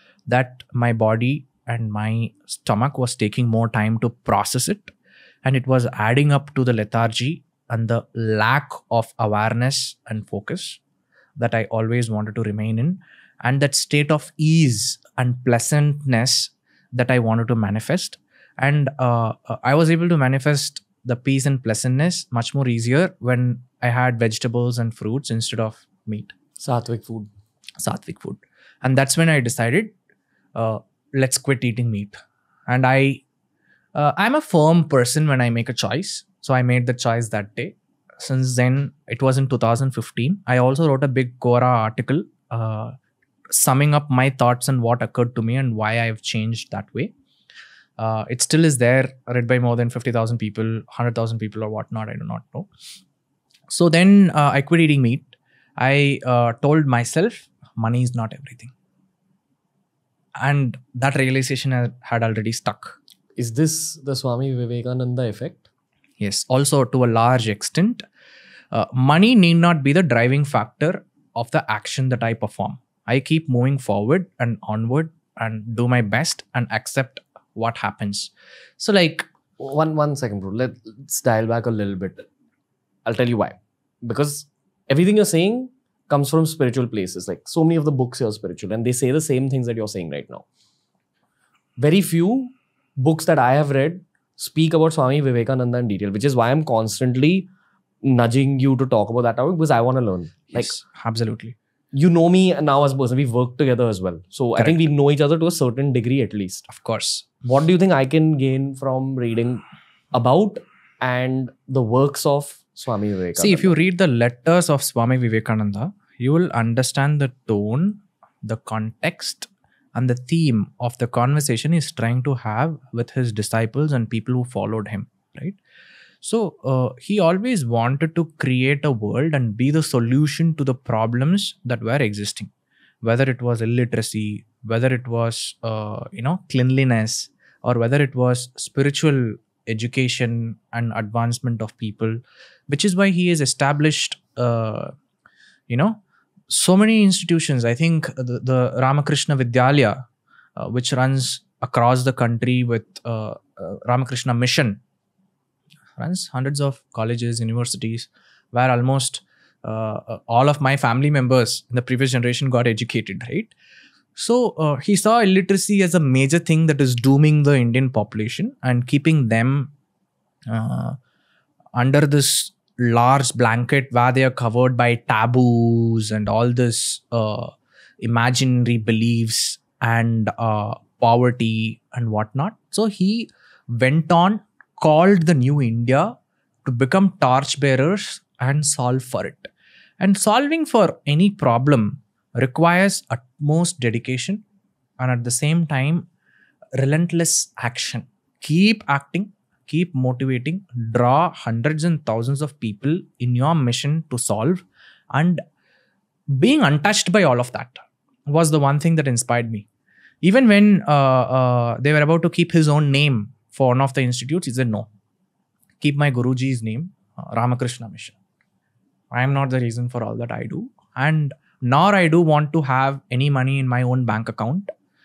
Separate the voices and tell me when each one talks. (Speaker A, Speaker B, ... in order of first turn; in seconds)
Speaker A: 0.3-10.8, 11.4-26.4, 27.8-29.9, 30.6-32.1, 32.7-33.2, 34.0-43.0, 43.5-47.1, 48.0-52.7, 53.7-58.7, 60.4-63.0, 66.2-68.1, 68.7-79.3, 100.5-101.6, 104.6-104.8, 106.7-107.3, 113.4-125.6, 126.2-132.5, 133.0-144.9, 145.7-150.0, 150.6-154.8, 156.0-163.5, 164.2-169.7, 170.5-171.0, 171.8-186.1, 186.7-189.5, 190.0-194.4, 195.0-196.1, 196.8-205.4, 206.3-209.7, 210.2-214.9, 215.8-218.2, 219.1-224.7
Speaker B: 26.6-27.3, 63.4-65.7, 79.6-82.3, 83.0-90.5, 91.8-97.5, 98.0-100.8, 101.9-106.7, 107.4-113.8